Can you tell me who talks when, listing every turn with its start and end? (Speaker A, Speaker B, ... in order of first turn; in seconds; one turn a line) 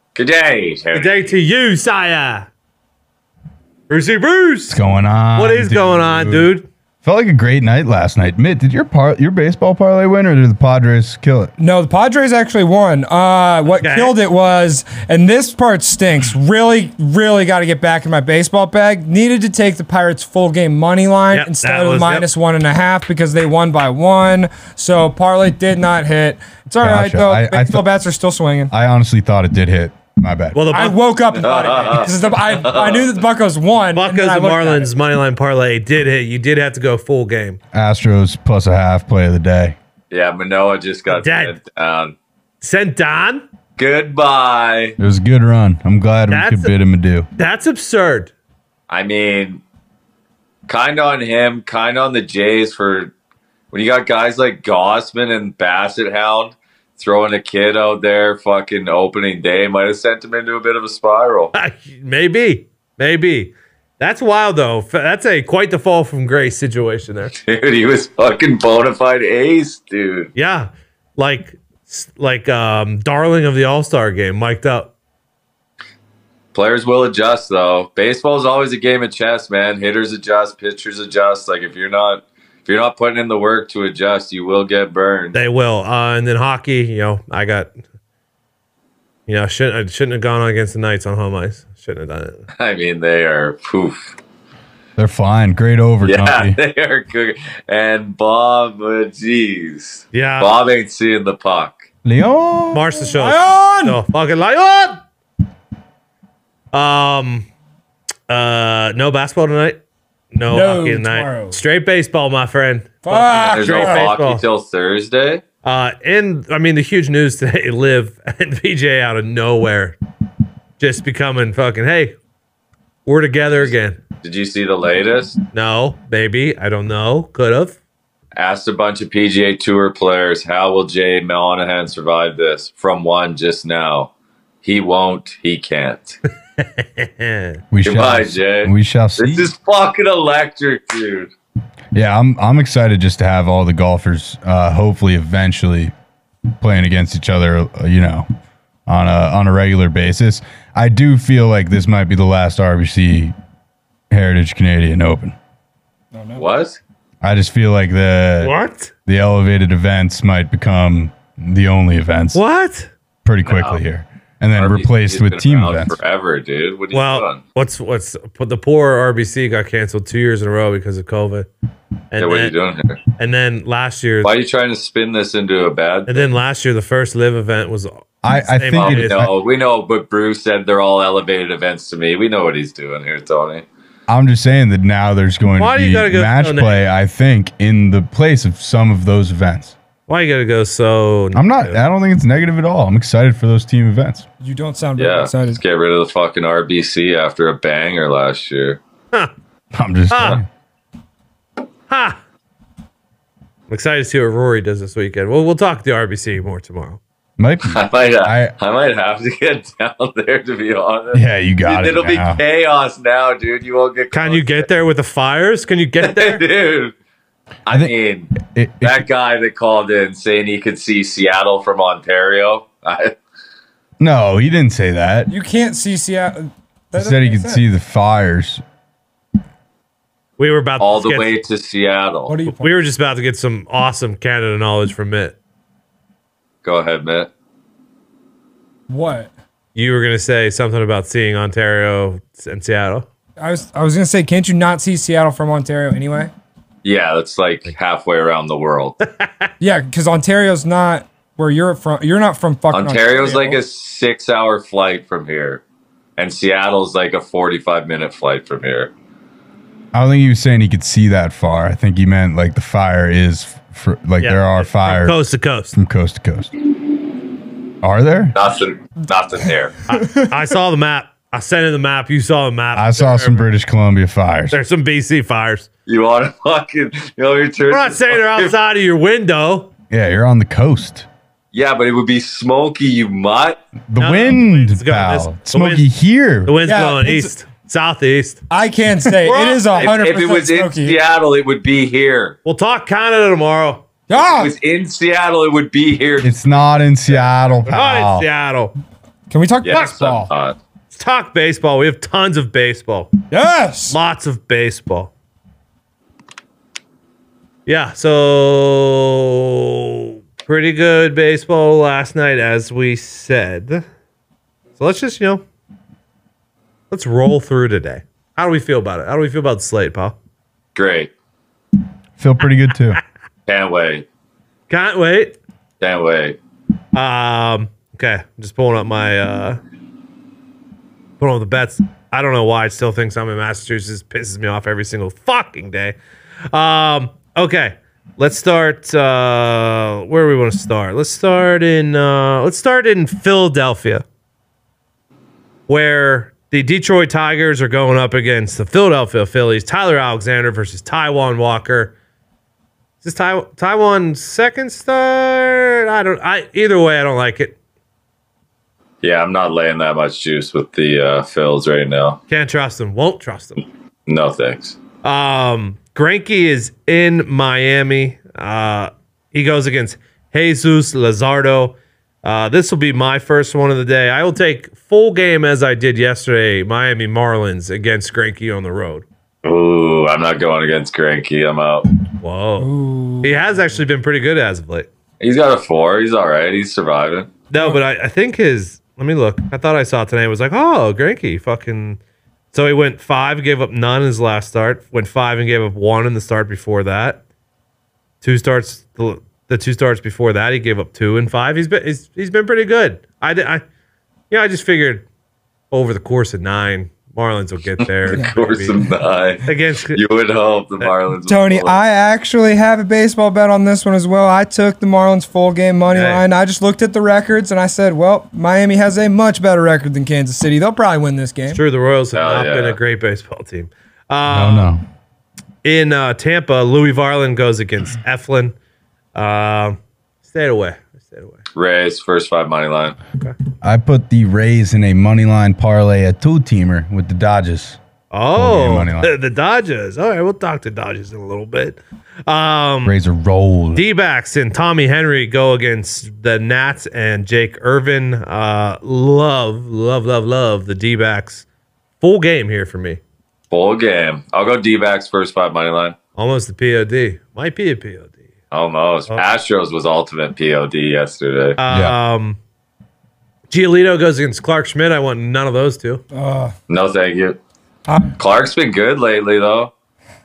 Speaker A: 0.1-1.3
Speaker B: 0.9-2.5
Speaker B: 3.9-4.8
Speaker C: 4.7-6.5
Speaker B: 5.3-6.7
Speaker C: 7.0-11.5
Speaker D: 11.6-28.7
Speaker B: 13.8-14.2
Speaker B: 21.3-22.3
Speaker C: 26.8-27.9
Speaker C: 28.7-30.6
Speaker B: 30.5-31.0
Speaker D: 30.7-34.9
Speaker A: 31.3-33.1
Speaker B: 33.9-37.6
Speaker C: 37.7-39.8
Speaker A: 40.1-42.1
Speaker B: 41.1-41.5
Speaker B: 42.6-43.5
Speaker A: 43.8-45.0
Speaker C: 45.0-47.3
Speaker B: 46.3-46.7
Speaker B: 47.4-48.3
Speaker A: 48.9-49.6
Speaker A: 50.7-53.1
Speaker A: 53.7-61.5
Speaker B: 61.5-67.3
Speaker A: 67.4-70.3
Speaker B: 70.3-74.9
Speaker A: 76.5-85.4
Speaker B: 85.3-87.7
Speaker B: 89.3-92.4
Speaker A: 92.6-94.2
Speaker C: 95.0-96.6
Speaker A: 96.0-101.8
Speaker B: 100.1-100.5
Speaker C: 102.0-102.9
Speaker B: 102.7-105.0
Speaker D: 103.0-104.0
Speaker B: 106.7-107.5
Speaker B: 108.3-109.8
Speaker B: 110.3-114.4
Speaker D: 110.5-111.6
Speaker D: 113.0-114.0
Speaker A: 113.4-115.4
Speaker B: 115.6-120.0
Speaker B: 120.8-122.1
Speaker B: 123.0-124.0
Speaker A: 123.6-125.4
Speaker B: 125.5-127.8
Speaker A: 128.3-134.1
Speaker A: 134.6-136.2
Speaker B: 136.6-137.6
Speaker C: 137.7-139.5
Speaker A: 137.8-141.3
Speaker C: 141.9-145.9
Speaker C: 146.6-148.3
Speaker C: 148.9-153.3
Speaker C: 154.1-155.3
Speaker D: 156.1-156.5
Speaker A: 156.3-156.8
Speaker C: 157.2-158.5
Speaker B: 158.4-158.9
Speaker C: 159.1-162.4
Speaker B: 162.3-162.9
Speaker C: 163.2-166.0
Speaker A: 163.4-163.8
Speaker A: 164.6-167.4
Speaker B: 166.9-171.5
Speaker B: 172.1-172.5
Speaker A: 172.2-173.0
Speaker B: 173.2-174.4
Speaker A: 174.2-176.3
Speaker B: 176.1-179.3
Speaker C: 178.2-179.3
Speaker A: 178.8-183.6
Speaker C: 184.1-189.8
Speaker B: 185.6-186.8
Speaker B: 190.1-191.8
Speaker C: 191.3-194.2
Speaker D: 194.4-195.6
Speaker A: 194.9-198.8
Speaker C: 199.7-200.5
Speaker B: 200.1-200.4
Speaker B: 201.9-202.2
Speaker B: 203.7-207.0
Speaker C: 207.4-208.5
Speaker A: 207.7-214.7
Speaker C: 211.1-212.4
Speaker B: 214.1-216.4
Speaker A: 216.0-216.9
Speaker A: 217.7-223.1
Speaker C: 217.7-219.1
Speaker C: 224.0-225.3
Speaker D: 225.3-227.6
Speaker C: 226.9-228.6
Speaker B: 230.4-231.4
Speaker A: 230.8-232.3
Speaker D: 232.3-232.8
Speaker B: 232.4-235.3
Speaker A: 236.6-237.3
Speaker D: 238.9-239.3
Speaker B: 239.7-243.0
Speaker D: 243.4-246.3
Speaker A: 246.8-249.0
Speaker B: 249.2-249.5
Speaker D: 249.6-253.6
Speaker A: 252.7-255.6
Speaker A: 256.2-258.9
Speaker C: 259.9-265.2
Speaker B: 264.2-265.8
Speaker C: 265.7-266.5
Speaker C: 267.8-268.4
Speaker A: 268.3-269.8
Speaker B: 269.9-273.5
Speaker D: 269.9-270.3
Speaker C: 272.7-274.6
Speaker B: 274.5-275.7
Speaker A: 275.9-278.5
Speaker B: 277.7-279.7
Speaker C: 279.9-281.1
Speaker A: 281.5-283.6
Speaker C: 283.9-286.6
Speaker B: 284.0-285.8
Speaker B: 286.4-288.4
Speaker D: 286.6-287.3
Speaker D: 288.5-291.0
Speaker B: 289.2-289.7
Speaker A: 289.7-292.4
Speaker B: 292.4-293.8
Speaker D: 294.1-294.5
Speaker A: 294.1-296.3
Speaker C: 296.2-298.3
Speaker A: 297.1-297.3
Speaker B: 297.7-298.7
Speaker D: 299.3-300.3
Speaker A: 299.6-300.6
Speaker B: 300.9-303.1
Speaker D: 303.3-304.0
Speaker B: 303.9-305.1
Speaker B: 307.6-313.8
Speaker B: 314.8-315.4
Speaker B: 316.9-320.1
Speaker A: 320.7-321.1
Speaker C: 322.2-323.0
Speaker A: 323.5-324.1
Speaker B: 324.7-325.4
Speaker A: 325.8-326.4
Speaker B: 326.9-329.6
Speaker B: 331.2-336.0
Speaker B: 336.5-344.0
Speaker B: 345.7-351.9
Speaker B: 353.0-357.6
Speaker A: 359.0-362.2
Speaker B: 362.3-363.6
Speaker A: 364.1-364.8
Speaker B: 365.0-379.0
Speaker A: 379.4-381.9
Speaker B: 382.2-382.7
Speaker D: 382.6-383.4
Speaker B: 383.2-384.9
Speaker A: 385.2-387.3
Speaker B: 387.5-392.0
Speaker B: 392.5-397.2
Speaker B: 398.2-403.6
Speaker B: 404.3-405.1
Speaker B: 405.7-408.8
Speaker A: 407.8-411.8
Speaker B: 409.4-410.0
Speaker D: 411.3-421.6
Speaker B: 415.9-416.2
Speaker B: 421.5-424.7
Speaker A: 422.1-422.8
Speaker C: 424.3-424.8
Speaker B: 425.6-428.5
Speaker B: 429.1-431.4
Speaker A: 431.6-433.0
Speaker C: 433.6-437.8
Speaker B: 438.1-442.9
Speaker C: 438.3-439.1
Speaker C: 442.8-443.8
Speaker B: 443.7-451.4
Speaker B: 452.0-453.0
Speaker A: 453.5-455.9
Speaker B: 456.2-458.2
Speaker A: 458.5-461.6
Speaker B: 461.6-462.4
Speaker C: 461.7-461.9
Speaker B: 463.5-466.0
Speaker D: 466.1-466.5
Speaker A: 466.7-467.4
Speaker D: 467.9-468.2
Speaker A: 468.2-469.7